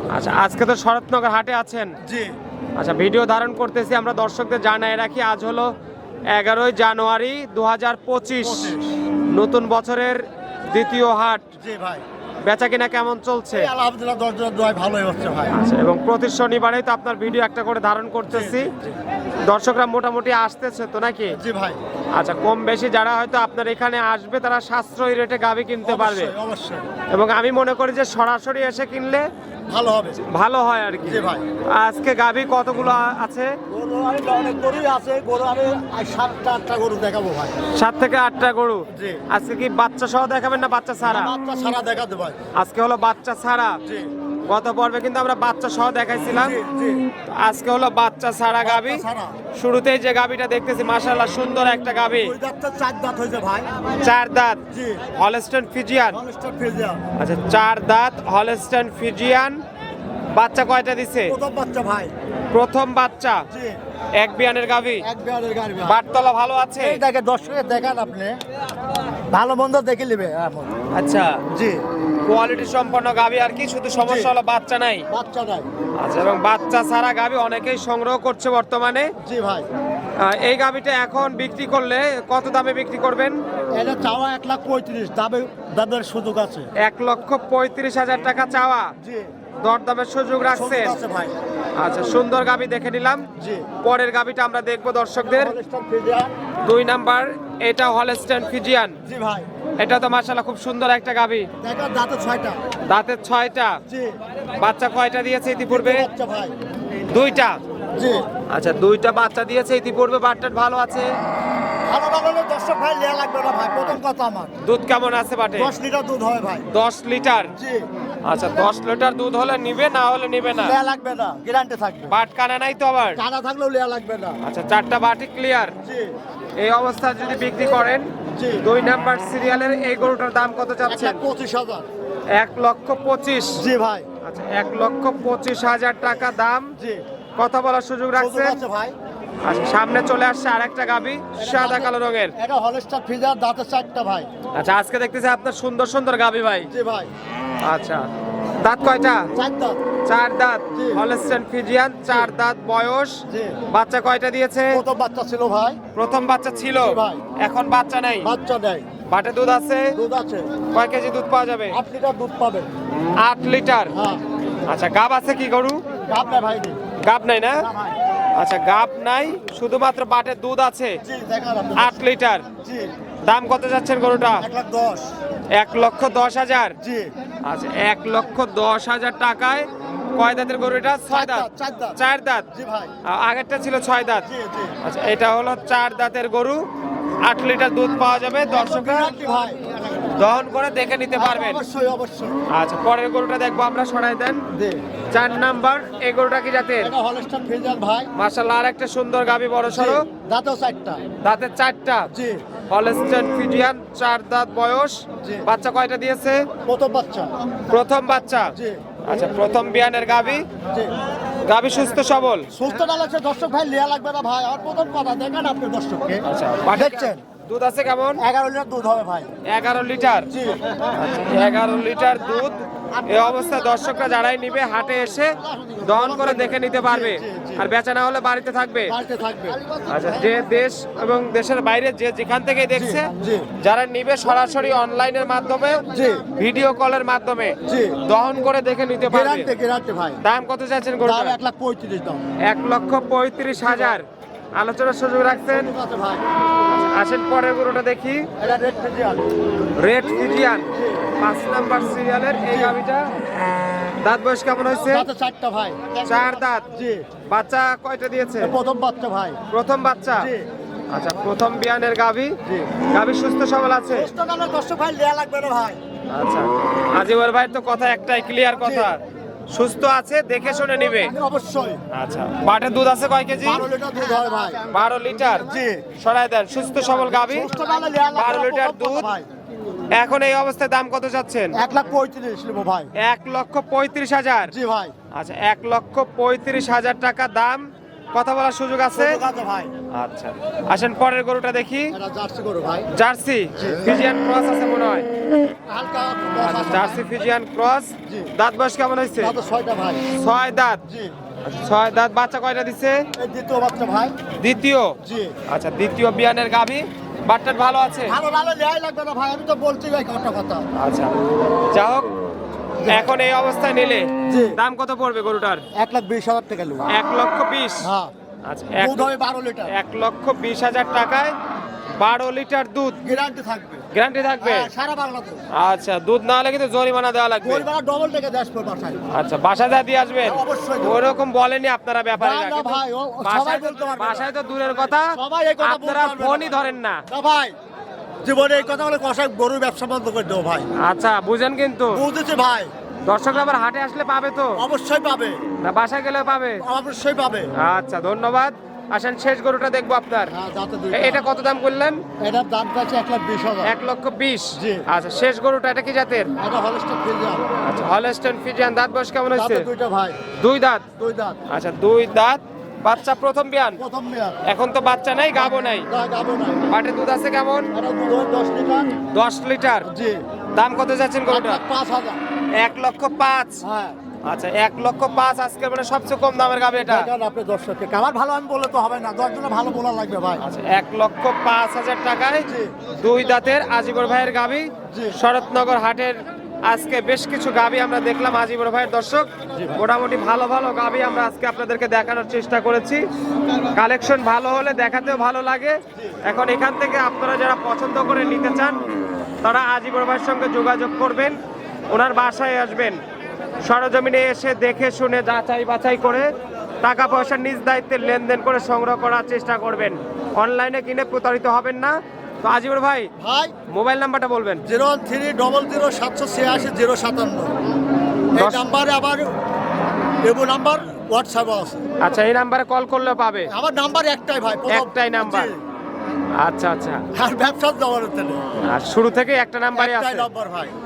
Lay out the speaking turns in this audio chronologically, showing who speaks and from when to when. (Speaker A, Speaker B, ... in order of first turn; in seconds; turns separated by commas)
Speaker A: 0.1-2.0, Speaker B: 2.0-2.4, Speaker A: 2.8-5.7, Speaker A: 6.3-8.7, Speaker B: 8.4-8.9, Speaker A: 9.3-11.4, Speaker B: 11.6-12.0, Speaker A: 12.4-13.7, Speaker B: 13.5-15.5, Speaker A: 15.5-18.7, Speaker B: 18.3-19.0, Speaker A: 19.4-21.4, Speaker B: 21.3-21.8, Speaker A: 22.1-26.3, Speaker B: 25.8-26.9, Speaker A: 27.1-29.3, Speaker B: 29.7-30.2, Speaker A: 30.2-33.5, Speaker B: 31.1-31.4, Speaker B: 33.7-37.6, Speaker A: 37.7-41.4, Speaker B: 38.9-39.2, Speaker B: 41.0-42.4, Speaker A: 42.6-43.8, Speaker A: 44.5-46.6, Speaker B: 46.3-47.0, Speaker A: 47.3-49.0, Speaker B: 48.6-49.4, Speaker A: 49.5-52.3, Speaker B: 52.1-53.7, Speaker A: 54.0-54.6, Speaker B: 54.7-55.1, Speaker A: 55.1-56.2, Speaker B: 56.1-57.0, Speaker A: 57.2-59.6, Speaker A: 60.3-61.4, Speaker B: 61.3-62.1, Speaker A: 62.5-63.5, Speaker B: 63.5-63.8, Speaker A: 64.2-65.1, Speaker B: 65.0-66.0, Speaker A: 65.8-67.0, Speaker B: 66.8-68.4, Speaker B: 69.3-70.7, Speaker A: 70.9-71.4, Speaker B: 71.5-71.8, Speaker A: 72.3-75.1, Speaker B: 74.0-74.3, Speaker B: 75.1-75.7, Speaker A: 76.0-79.1, Speaker B: 79.2-79.7, Speaker A: 80.2-83.4, Speaker B: 83.7-86.7, Speaker A: 86.8-88.9, Speaker B: 89.0-89.3, Speaker A: 89.6-91.0, Speaker B: 90.5-91.3, Speaker A: 91.8-93.3, Speaker B: 93.4-93.7, Speaker A: 93.8-95.5, Speaker B: 95.2-96.3, Speaker A: 96.7-99.0, Speaker B: 99.1-99.5, Speaker A: 99.8-101.5, Speaker B: 101.6-102.6, Speaker A: 102.9-103.8, Speaker B: 103.9-104.2, Speaker A: 104.6-106.1, Speaker B: 105.7-106.5, Speaker A: 107.1-107.6, Speaker B: 108.0-108.3, Speaker A: 108.5-111.2, Speaker B: 111.9-114.5, Speaker A: 114.6-115.7, Speaker B: 115.6-116.7, Speaker A: 116.7-117.5, Speaker B: 117.6-117.9, Speaker A: 118.2-120.8, Speaker B: 120.5-122.2, Speaker A: 122.1-123.2, Speaker B: 123.2-124.4, Speaker A: 124.4-125.8, Speaker B: 125.8-126.1, Speaker A: 126.6-128.1, Speaker B: 127.4-128.7, Speaker A: 128.6-131.2, Speaker B: 130.9-131.9, Speaker A: 132.3-133.6, Speaker B: 133.6-134.1, Speaker A: 134.2-136.7, Speaker B: 136.8-137.0, Speaker A: 137.4-138.6, Speaker B: 138.2-138.9, Speaker A: 139.4-142.3, Speaker B: 141.4-144.3, Speaker A: 144.5-146.7, Speaker B: 146.7-147.1, Speaker A: 147.6-148.1, Speaker A: 148.6-149.3, Speaker B: 149.3-149.8, Speaker A: 150.1-154.8, Speaker B: 150.7-151.0, Speaker B: 153.3-153.6, Speaker B: 154.7-155.8, Speaker A: 155.9-158.3, Speaker B: 156.8-157.2, Speaker B: 158.2-158.9, Speaker A: 159.1-159.9, Speaker B: 159.9-160.5, Speaker A: 160.7-161.8, Speaker B: 161.7-162.7, Speaker A: 163.2-163.9, Speaker B: 163.9-164.2, Speaker A: 164.7-165.8, Speaker B: 166.1-166.8, Speaker A: 167.0-167.7, Speaker B: 167.6-168.0, Speaker A: 168.4-171.0, Speaker B: 171.0-172.0, Speaker A: 171.8-172.5, Speaker B: 172.6-172.9, Speaker A: 173.2-174.5, Speaker B: 174.4-175.1, Speaker A: 175.5-176.8, Speaker B: 176.8-177.1, Speaker A: 177.5-182.5, Speaker B: 181.1-182.0, Speaker B: 182.5-182.9, Speaker A: 183.0-184.3, Speaker B: 184.2-184.8, Speaker A: 184.8-186.6, Speaker A: 187.2-189.2, Speaker B: 188.5-190.2, Speaker A: 190.1-191.6, Speaker B: 191.2-192.3, Speaker A: 192.5-194.4, Speaker B: 194.5-194.8, Speaker A: 195.1-196.9, Speaker B: 196.8-198.1, Speaker A: 198.2-200.1, Speaker B: 199.7-201.0, Speaker A: 201.2-202.1, Speaker B: 202.1-202.4, Speaker A: 202.7-206.5, Speaker B: 205.2-205.5, Speaker B: 206.7-207.3, Speaker A: 207.7-208.5, Speaker B: 208.5-208.8, Speaker A: 209.1-210.4, Speaker A: 211.4-212.5, Speaker B: 212.5-217.2, Speaker A: 216.2-218.2, Speaker B: 218.2-219.3, Speaker A: 219.5-220.3, Speaker B: 220.3-220.6, Speaker A: 220.9-229.0, Speaker B: 223.0-223.4, Speaker B: 225.4-227.7, Speaker B: 228.9-230.3, Speaker A: 229.9-235.8, Speaker B: 232.8-233.5, Speaker B: 235.9-236.2, Speaker A: 236.4-239.5, Speaker B: 237.7-238.0, Speaker B: 239.1-240.2, Speaker A: 240.2-241.4, Speaker B: 241.0-242.2, Speaker A: 242.4-245.7, Speaker B: 243.7-244.0, Speaker B: 245.5-246.2, Speaker A: 246.7-248.3, Speaker B: 248.4-249.2, Speaker A: 249.8-253.2, Speaker B: 250.7-251.1, Speaker B: 252.4-253.2, Speaker A: 254.0-255.1, Speaker B: 254.7-257.0, Speaker A: 256.1-256.6, Speaker A: 257.3-258.6, Speaker B: 258.4-259.4, Speaker A: 259.5-260.3, Speaker B: 260.2-260.5, Speaker A: 260.9-262.4, Speaker B: 262.4-262.8, Speaker A: 262.9-264.1, Speaker B: 263.9-265.8, Speaker A: 266.1-271.1, Speaker B: 268.6-268.9, Speaker B: 270.6-271.8, Speaker A: 271.9-273.7, Speaker B: 273.4-274.6, Speaker A: 274.7-277.5, Speaker B: 275.4-275.9, Speaker B: 277.2-279.3, Speaker A: 278.1-279.1, Speaker A: 279.9-281.6, Speaker B: 281.5-282.9, Speaker A: 283.0-284.5, Speaker B: 284.5-284.9, Speaker A: 285.1-289.2, Speaker B: 288.9-289.7, Speaker A: 289.9-291.9, Speaker B: 291.9-292.9, Speaker A: 292.9-295.1, Speaker B: 293.6-294.0, Speaker B: 295.7-297.0, Speaker A: 296.4-299.4, Speaker B: 298.1-298.3, Speaker B: 299.2-300.0, Speaker A: 300.1-300.8, Speaker B: 300.9-301.1, Speaker A: 301.4-303.1, Speaker B: 303.2-304.1, Speaker A: 304.4-305.0, Speaker B: 305.0-305.4, Speaker A: 305.5-308.2, Speaker B: 308.1-310.6, Speaker A: 310.8-312.1, Speaker B: 312.8-313.2, Speaker A: 312.9-315.6, Speaker B: 314.3-314.6, Speaker B: 315.7-316.9, Speaker A: 316.9-317.9, Speaker B: 317.8-318.1, Speaker A: 318.5-319.1, Speaker B: 318.8-319.7, Speaker A: 319.7-321.3, Speaker A: 322.0-323.0, Speaker B: 323.0-323.9, Speaker A: 323.9-324.7, Speaker B: 324.4-325.4, Speaker A: 325.5-327.6, Speaker B: 327.4-329.0, Speaker A: 329.1-337.0, Speaker B: 330.2-331.0, Speaker B: 332.2-334.3, Speaker B: 335.1-337.5, Speaker B: 338.2-340.7, Speaker A: 340.8-342.0, Speaker B: 341.9-342.7, Speaker A: 343.1-344.6, Speaker B: 344.6-345.4, Speaker A: 345.6-346.6, Speaker B: 346.6-347.5, Speaker A: 347.6-350.3, Speaker B: 350.3-351.2, Speaker A: 350.9-352.0, Speaker B: 352.2-353.7, Speaker A: 353.6-356.3, Speaker B: 354.6-354.8, Speaker B: 356.4-357.6, Speaker A: 357.6-359.7, Speaker B: 359.3-360.2, Speaker A: 360.3-360.8, Speaker B: 361.0-361.4, Speaker A: 361.5-363.8, Speaker B: 363.8-364.4, Speaker A: 364.5-365.9, Speaker B: 365.4-366.7, Speaker A: 366.7-367.7, Speaker B: 367.7-368.9, Speaker A: 369.1-369.9, Speaker B: 369.9-370.2, Speaker A: 370.6-371.6, Speaker B: 371.3-372.2, Speaker A: 372.6-373.6, Speaker B: 373.6-374.0, Speaker A: 374.2-377.1, Speaker B: 376.8-380.4, Speaker A: 380.4-393.0, Speaker B: 382.5-382.8, Speaker B: 384.9-385.1, Speaker B: 389.5-389.8, Speaker A: 393.7-398.8, Speaker B: 395.9-396.2, Speaker A: 399.4-401.4, Speaker A: 401.9-403.0, Speaker A: 403.6-406.3, Speaker A: 406.8-413.1, Speaker B: 413.2-413.5, Speaker A: 413.7-414.6, Speaker B: 414.7-417.5, Speaker B: 418.3-419.3, Speaker A: 418.4-418.7, Speaker B: 420.2-421.9, Speaker A: 422.0-423.5, Speaker B: 423.5-425.6, Speaker A: 424.7-425.5, Speaker A: 426.4-427.0, Speaker B: 427.1-428.4, Speaker A: 428.6-430.3, Speaker B: 429.7-430.7